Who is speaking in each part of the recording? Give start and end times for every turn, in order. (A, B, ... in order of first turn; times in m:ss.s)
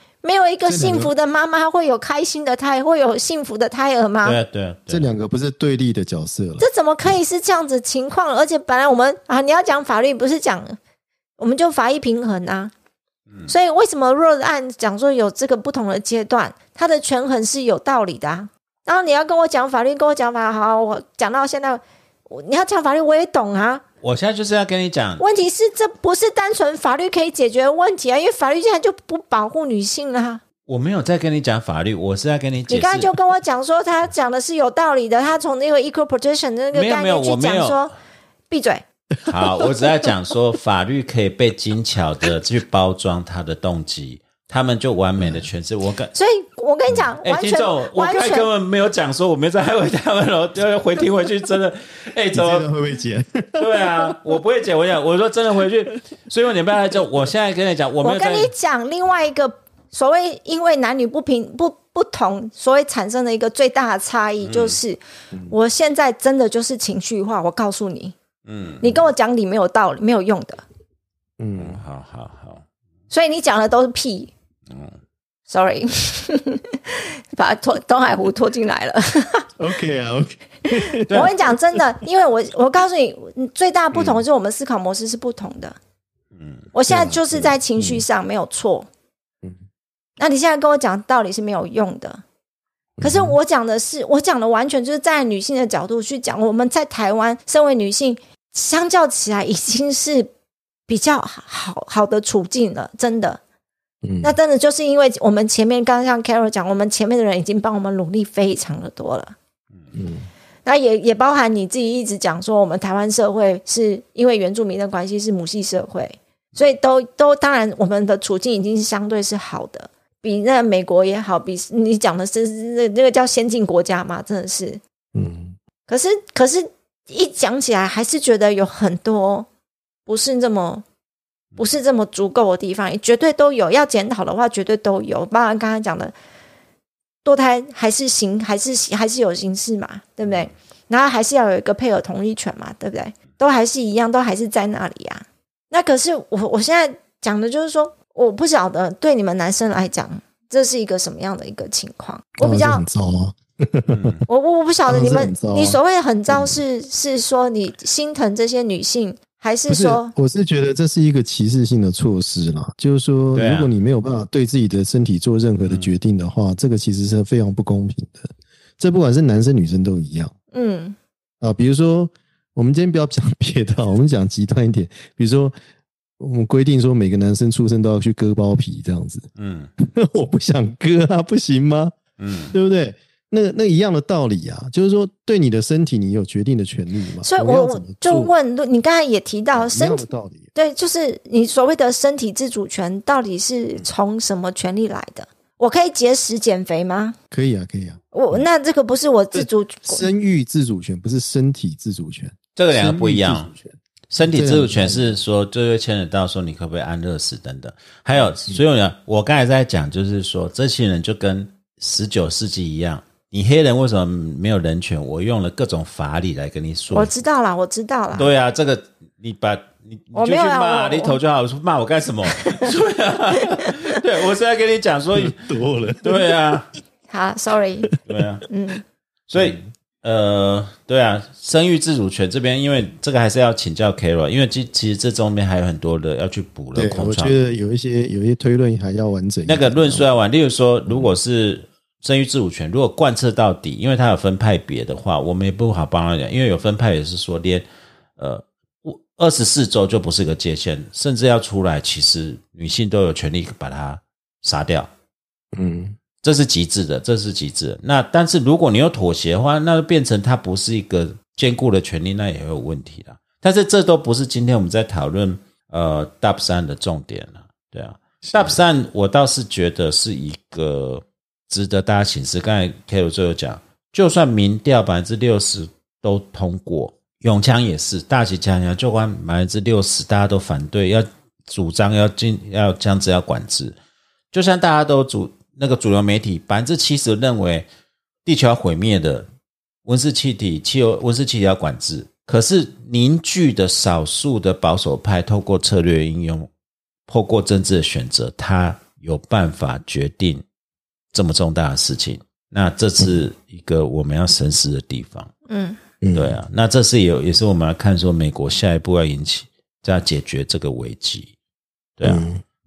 0:00.2-0:04.4 A
0:00.6-0:01.1 B
0:04.2-0:05.1 C
0:04.9-0:06.7 B
0:06.6-0:10.8 A
0:11.4-0:12.7 A
0:13.5-0:23.8 A
0:24.0-0:25.2 C
0:25.2-0:30.4 A
0:30.7-0:33.1 C
0:32.7-0:37.9 A
0:36.7-0:37.9 C
0:38.5-0:38.8 A
0:39.3-0:46.1 C
0:45.2-0:45.5 B
0:46.1-0:48.5 A
0:47.2-0:52.7 C
0:52.3-0:54.2 B
0:53.6-0:58.5 C
0:58.0-1:08.2 A
1:04.4-1:04.8 C
1:08.5-1:08.9 C
1:08.8-1:10.6 A
1:11.4-1:11.8 B
1:11.6-1:12.6 C
1:13.1-1:14.3 A
1:14.7-1:15.0 C
1:15.5-1:19.5 A
1:19.6-1:21.2 B
1:21.0-1:25.8 A
1:21.1-1:21.3 C
1:26.4-1:26.6 C
1:26.7-1:28.9 A
1:26.9-1:28.0 B
1:30.2-1:32.2 A
1:33.0-1:33.4 B
1:33.0-1:40.3 A
1:40.9-1:43.4 A
1:44.0-1:44.4 B
1:44.2-1:49.4 A
1:50.0-1:50.3 B
1:50.6-2:04.8 A
2:05.1-2:05.6 B
2:05.9-2:09.5 A
2:10.1-2:10.8 A
2:11.6-2:16.1 A
2:17.2-2:32.8 A
2:32.4-2:34.2 B
2:33.9-2:34.2 C
2:34.3-2:40.1 A
2:34.9-2:36.6 B
2:39.7-2:50.3 B
2:43.3-2:43.7 C
2:45.6-2:45.9 C
2:50.5-2:51.0 A
2:51.4-2:55.5 B
2:56.2-3:02.0 B
2:59.4-2:59.7 C
3:02.2-3:02.5 C
3:02.5-3:08.3 B
3:07.2-3:17.2 A
3:09.6-3:10.5 B
3:17.3-3:18.5 B
3:18.1-3:20.0 A
3:19.4-3:25.2 B
3:22.6-3:23.5 C
3:24.1-3:37.1 C
3:36.9-3:38.3 A
3:38.2-3:46.7 C
3:40.1-3:41.2 A
3:45.2-3:46.3 B
3:47.1-3:47.9 A
3:48.1-3:48.5 C
3:48.5-3:48.8 A
3:49.3-3:57.4 C
3:49.4-3:49.6 B
3:56.8-4:00.1 B
3:59.5-4:07.6 C
4:00.9-4:01.2 B
4:08.2-4:14.9 C
4:15.5-4:16.0 B
4:16.2-4:43.8 C
4:28.2-4:28.6 B
4:44.3-4:47.7 C
4:48.2-4:49.3 C
4:49.9-4:56.5 C
4:57.1-5:00.4 C
5:01.1-5:05.3 C
5:05.5-5:05.8 A
5:06.0-5:06.4 B
5:06.1-5:11.3 C
5:12.0-5:12.2 C
5:12.0-5:12.4 B